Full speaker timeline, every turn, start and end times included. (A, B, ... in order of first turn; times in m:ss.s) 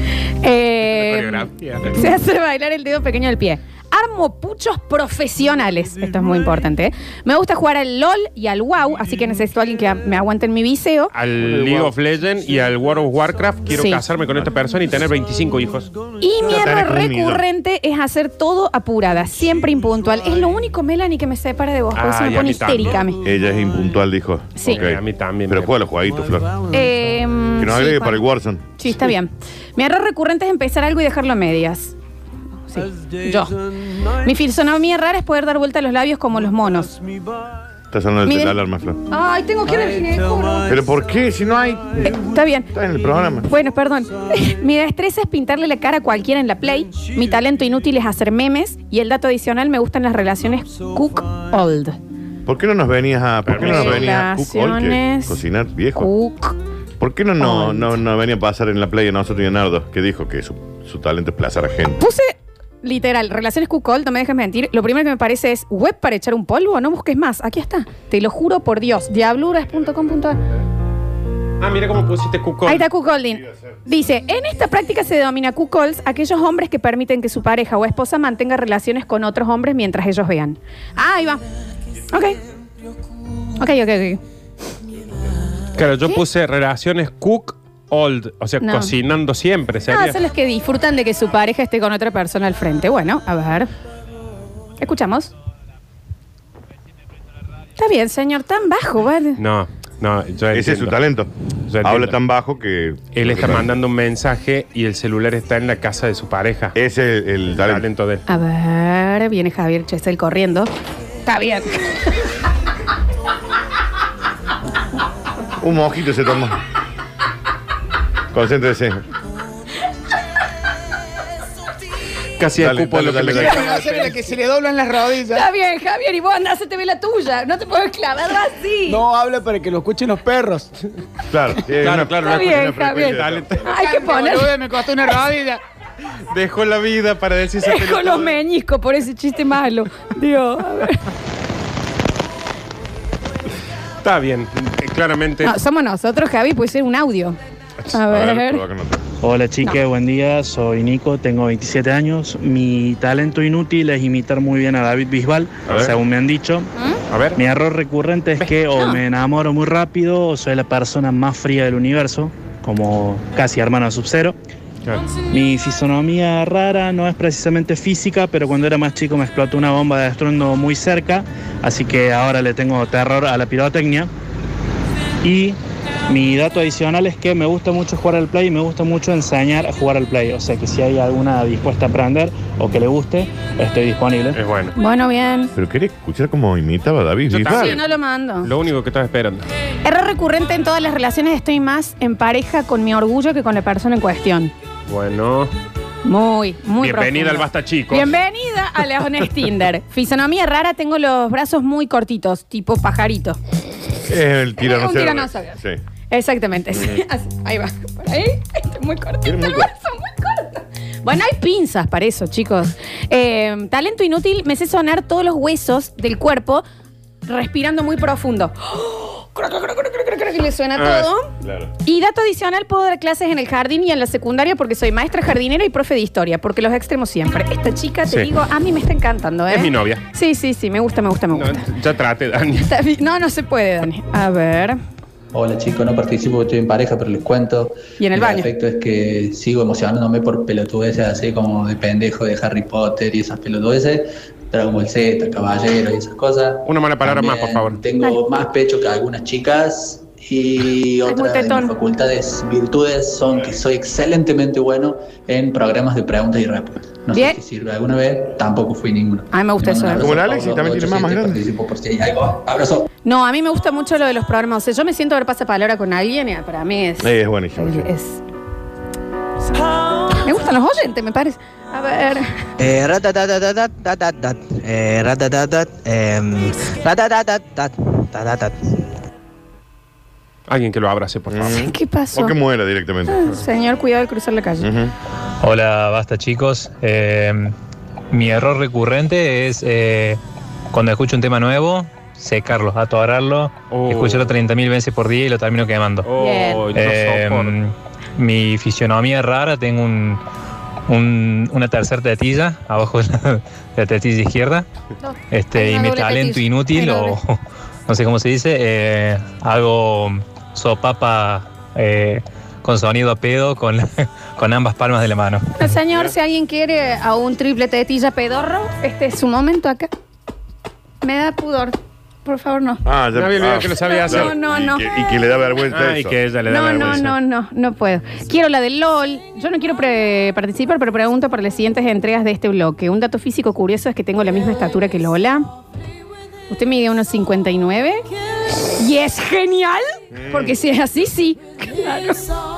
0:00.4-0:11.1 A
0:00.9-0:02.0 B
0:11.1-0:15.9 B
0:11.4-0:11.9 C
0:13.7-0:14.0 A
0:16.2-0:23.2 A
0:16.4-0:17.4 C
0:22.0-0:23.1 B
0:23.2-0:26.7 C
0:24.6-0:25.7 B
0:26.7-0:28.2 A
0:27.6-0:28.7 C
0:28.8-0:31.9 A
0:32.7-0:33.5 A
0:34.2-0:37.0 A
0:37.9-0:39.0 C
0:38.2-0:38.6 A
0:39.1-0:40.8 A
0:40.6-0:42.2 C
0:42.0-0:42.7 A
0:42.7-0:43.5 C
0:43.4-0:52.0 A
0:52.4-0:56.1 C
0:53.5-0:54.0 B
0:53.5-0:55.4 A
0:55.9-0:56.6 A
0:57.0-1:02.0 C
0:57.4-0:58.0 A
1:02.0-1:10.4 A
1:11.6-1:12.8 B
1:12.6-1:21.4 A
1:13.2-1:13.8 C
1:22.1-1:22.4 A
1:23.6-1:24.2 A
1:25.7-1:30.2 B
1:28.6-1:28.9 A
1:29.9-1:33.7 A
1:34.8-1:35.3 A
1:37.8-1:39.4 A
1:39.4-1:41.0 B
1:40.5-1:43.7 C
1:41.7-1:42.2 B
1:43.1-1:46.8 B
1:46.7-1:47.8 C
1:47.5-1:48.2 B
1:48.3-1:50.7 A
1:51.2-1:52.0 A
1:55.6-1:56.6 C
1:58.3-1:59.0 C
2:02.4-2:04.1 B
2:02.6-2:04.0 C
2:03.5-2:05.4 D
2:05.3-2:09.0 A
2:08.9-2:10.7 D
2:11.3-2:13.7 C
2:11.8-2:13.6 B
2:12.0-2:14.6 A
2:13.7-2:15.6 D
2:16.3-2:18.4 B
2:17.6-2:21.0 A
2:24.0-2:25.5 B
2:25.4-2:27.4 A
2:27.9-2:28.6 A
2:27.9-2:29.0 C
2:29.2-2:36.7 E
2:35.6-2:35.9 C
2:35.7-2:36.0 B
2:37.1-2:37.4 B
2:37.4-2:44.4 E
2:38.4-2:39.0 B
2:45.3-2:54.1 E
2:55.2-3:04.4 E
3:04.3-3:04.7 B
3:04.8-3:05.5 A
3:05.5-3:07.8 C
3:07.3-3:07.9 B
3:07.5-3:08.5 A
3:08.4-3:09.4 B
3:09.8-3:14.5 A
3:14.9-3:15.5 B
3:16.0-3:23.4 A
3:16.8-3:18.2 B
3:24.0-3:25.8 C
3:24.6-3:25.6 A
3:26.1-3:36.6 A
3:29.2-3:29.7 C
3:37.2-3:41.3 A
3:40.8-3:41.1 B
3:41.4-3:41.7 C
3:41.8-3:51.7 A
3:48.1-3:48.3 B
3:49.5-3:50.0 B
3:51.3-3:52.7 B
3:52.6-3:54.8 A
3:55.3-4:22.9 F
3:58.0-3:58.5 A
4:06.6-4:07.8 B
4:11.0-4:11.7 A
4:17.1-4:17.4 A
4:19.3-4:20.1 A
4:20.0-4:21.4 C
4:23.0-4:28.2 A
4:27.0-4:27.9 C
4:30.2-4:32.4 A
4:32.6-4:38.6 G
4:40.5-4:41.6 B
4:41.3-4:43.3 C
4:41.6-4:42.4 A
4:43.1-4:44.7 A
4:44.6-4:44.9 C
4:45.4-4:47.5 H
4:48.1-4:50.2 H
4:50.7-4:56.1 H
4:53.7-4:54.3 B
4:56.0-4:57.6 B
4:56.2-4:56.6 A
4:56.7-5:00.2 H
5:00.9-5:04.6 H
5:05.0-5:07.2 A
5:05.3-5:15.5 H
5:15.5-5:19.9 A
5:21.0-5:22.8 A
5:22.8-5:26.2 C
5:23.1-5:24.3 B
5:23.8-5:24.8 A
5:25.7-5:27.1 B
5:26.5-5:35.5 A
5:36.5-5:38.0 A
5:38.7-5:42.2 A
5:40.1-5:40.6 C